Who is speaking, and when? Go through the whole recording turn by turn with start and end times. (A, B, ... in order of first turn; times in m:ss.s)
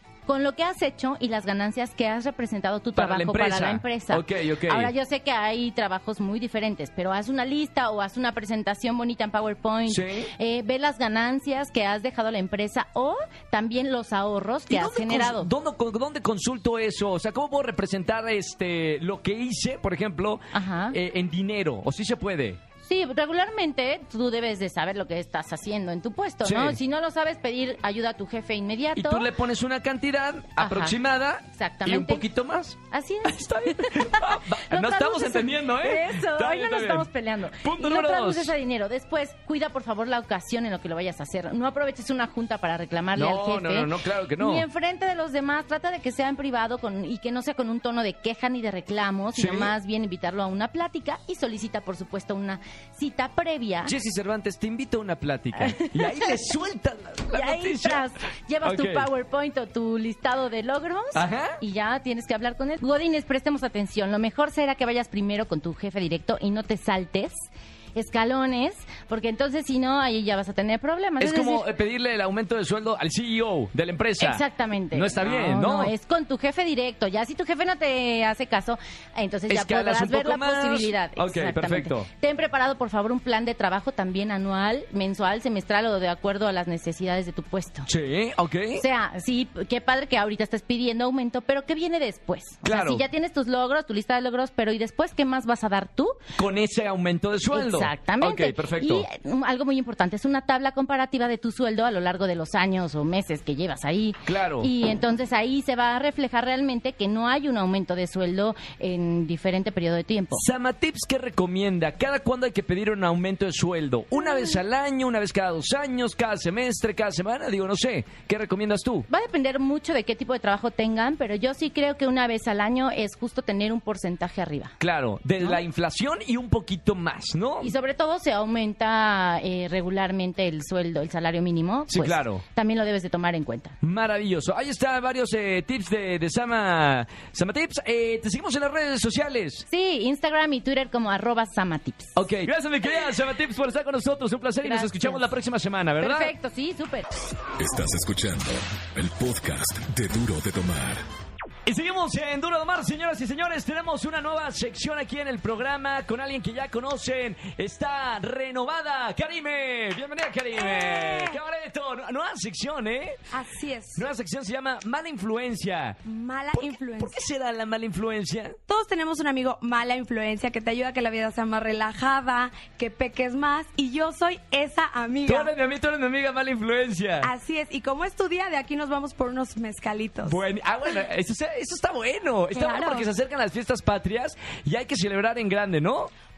0:00.3-0:15.5 A
0:03.0-0:04.9 B
0:09.9-0:10.3 B
0:14.7-0:22.6 B
0:20.5-0:21.0 A
0:22.8-0:29.3 A
0:26.4-0:26.8 B
0:28.9-0:38.5 B
0:30.6-0:32.2 A
0:32.9-0:53.9 A
0:43.1-0:44.6 B
0:49.3-0:49.7 B
0:53.8-0:58.0 B
0:55.6-0:56.4 A
0:57.3-1:11.7 A
0:58.6-0:59.1 B
1:01.1-1:01.6 B
1:11.2-1:15.9 B
1:14.2-1:27.9 A
1:19.5-1:22.1 B
1:27.9-1:28.8 B
1:28.7-1:36.2 A
1:32.6-1:33.0 B
1:36.4-1:39.1 B
1:37.5-1:50.4 A
1:44.2-1:44.7 B
1:50.3-1:59.1 B
1:59.1-2:04.8 A
2:04.8-2:07.7 B
2:07.6-2:13.8 A
2:11.9-2:12.4 B
2:13.8-2:19.6 B
2:19.7-2:22.2 A
2:22.2-2:26.3 B
2:24.6-2:25.3 A
2:26.0-2:27.1 A
2:27.6-2:31.0 C
2:31.6-2:43.2 B
2:40.6-2:41.4 D
2:43.3-2:44.0 D
2:43.9-2:46.0 B
2:46.0-2:47.2 D
2:46.5-2:48.6 B
2:48.7-2:55.5 D
2:55.2-2:57.3 B
2:57.2-3:00.4 D
3:00.2-3:06.1 B
3:02.5-3:03.1 D